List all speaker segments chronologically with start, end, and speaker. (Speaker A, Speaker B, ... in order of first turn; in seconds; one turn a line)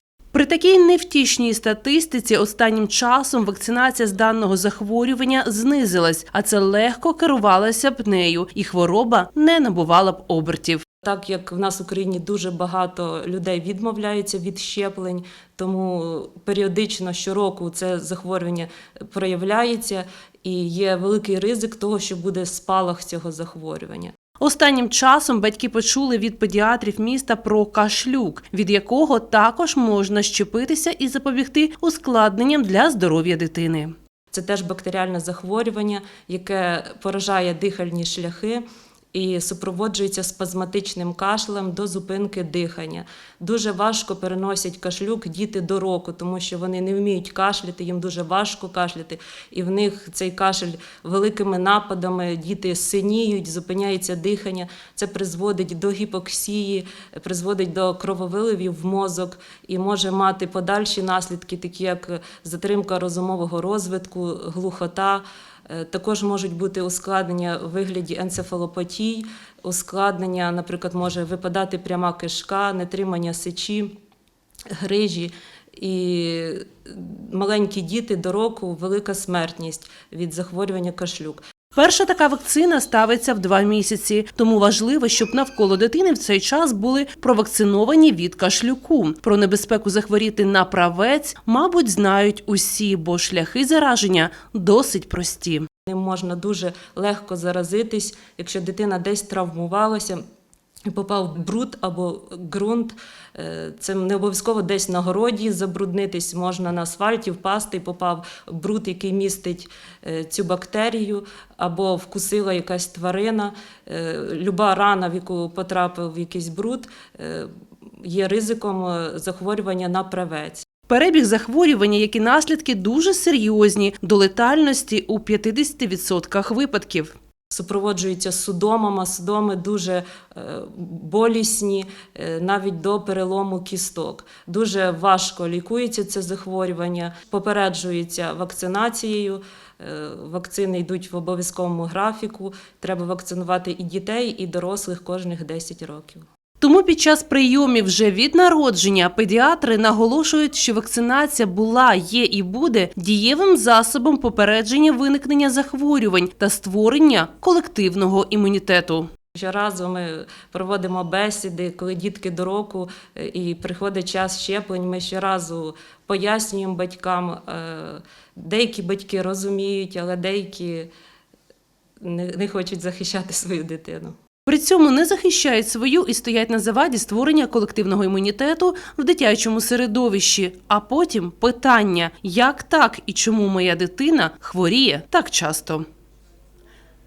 Speaker A: 0.3-10.8
Speaker B: 11.0-24.1
Speaker A: 24.4-33.9
Speaker B: 34.3-74.0
Speaker B: 74.8-81.4
Speaker A: 81.8-95.7
Speaker B: 95.9-100.2
Speaker B: 100.9-117.5
Speaker B: 118.0-120.7
Speaker A: 120.9-127.1
Speaker B: 127.5-146.2
Speaker A: 146.6-159.1
Speaker B: 159.3-170.9
Speaker B: 172.0-174.1
Speaker A: 174.5-185.8